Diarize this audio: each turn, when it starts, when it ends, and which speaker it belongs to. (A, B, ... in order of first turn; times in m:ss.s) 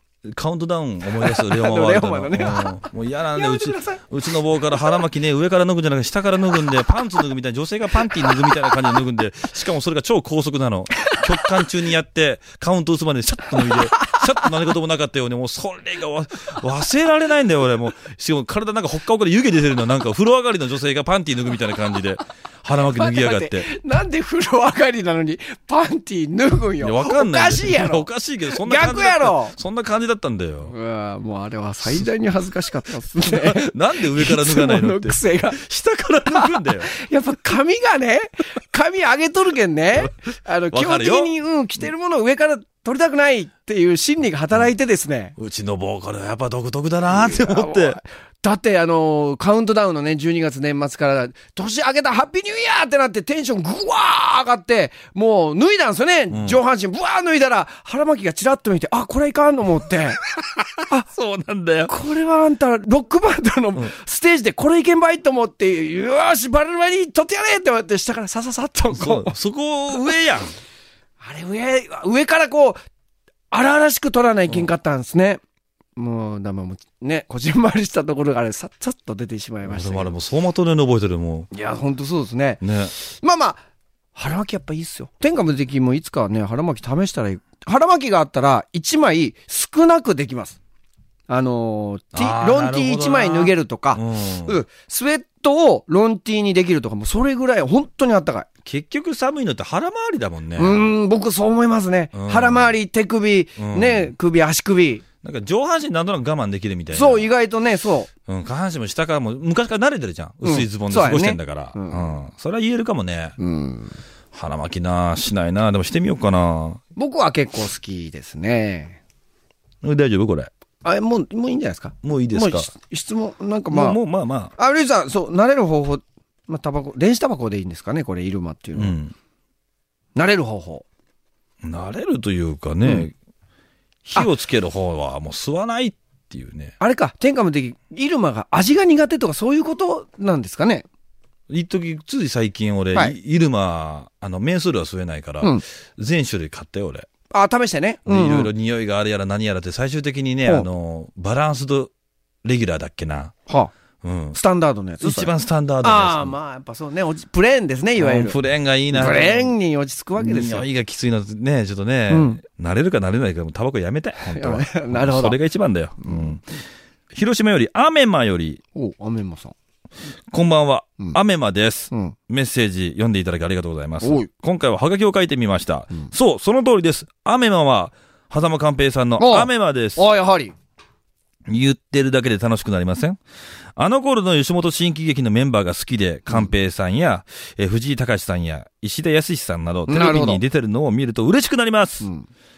0:00.2-0:23.7 A
0:01.2-0:02.8 B
0:03.3-0:04.0 B
0:22.8-0:29.5 B
0:26.8-0:30.7 A
0:30.7-0:35.6 B
0:33.2-0:36.9 A
0:36.3-0:45.3 B
0:40.7-0:41.3 A
0:45.4-0:48.0 A
0:47.1-1:00.2 B
0:56.3-0:56.6 A
1:01.0-1:01.9 A
1:01.8-1:09.3 B
1:08.9-1:10.6 A
1:11.2-1:12.8 B
1:13.5-1:15.4 B
1:16.0-1:20.1 B
1:19.6-1:21.5 A
1:21.5-1:23.6 B
1:22.6-1:22.9 A
1:24.1-1:30.6 B
1:31.3-1:38.5 B
1:32.1-1:34.6 A
1:38.6-1:40.9 A
1:40.6-1:45.0 B
1:42.1-1:42.7 A
1:43.6-1:44.1 A
1:45.2-1:47.3 A
1:46.9-1:48.1 B
1:48.3-1:53.4 A
1:50.4-1:52.1 B
1:53.4-1:54.0 B
1:54.3-1:56.8 A
1:57.0-1:59.0 B
1:59.8-2:00.5 A
2:00.8-2:04.0 B
2:02.0-2:02.7 A
2:03.7-2:04.5 A
2:04.6-2:09.0 B
2:08.7-2:09.1 A
2:10.1-2:10.8 B
2:11.6-2:13.1 A
2:12.8-2:13.1 B
2:14.0-2:16.7 A
2:16.8-2:20.9 B
2:21.5-2:27.1 A
2:27.3-2:28.5 B
2:28.0-2:31.9 A
2:32.4-2:33.3 A
2:34.0-2:34.4 A
2:34.3-2:38.4 B
2:35.0-2:36.4 A
2:38.0-2:39.5 A
2:38.9-2:40.7 B
2:40.2-2:46.4 A
2:42.1-2:42.4 B
2:44.2-2:45.4 B
2:46.0-2:46.4 B
2:47.1-2:48.6 A
2:48.7-2:49.5 B
2:50.3-3:00.1 A
2:51.9-2:52.2 B
2:54.0-2:54.3 B
2:59.2-3:00.5 B
3:01.5-3:03.2 A
3:03.8-3:12.1 A
3:09.9-3:10.4 B
3:12.0-3:12.3 B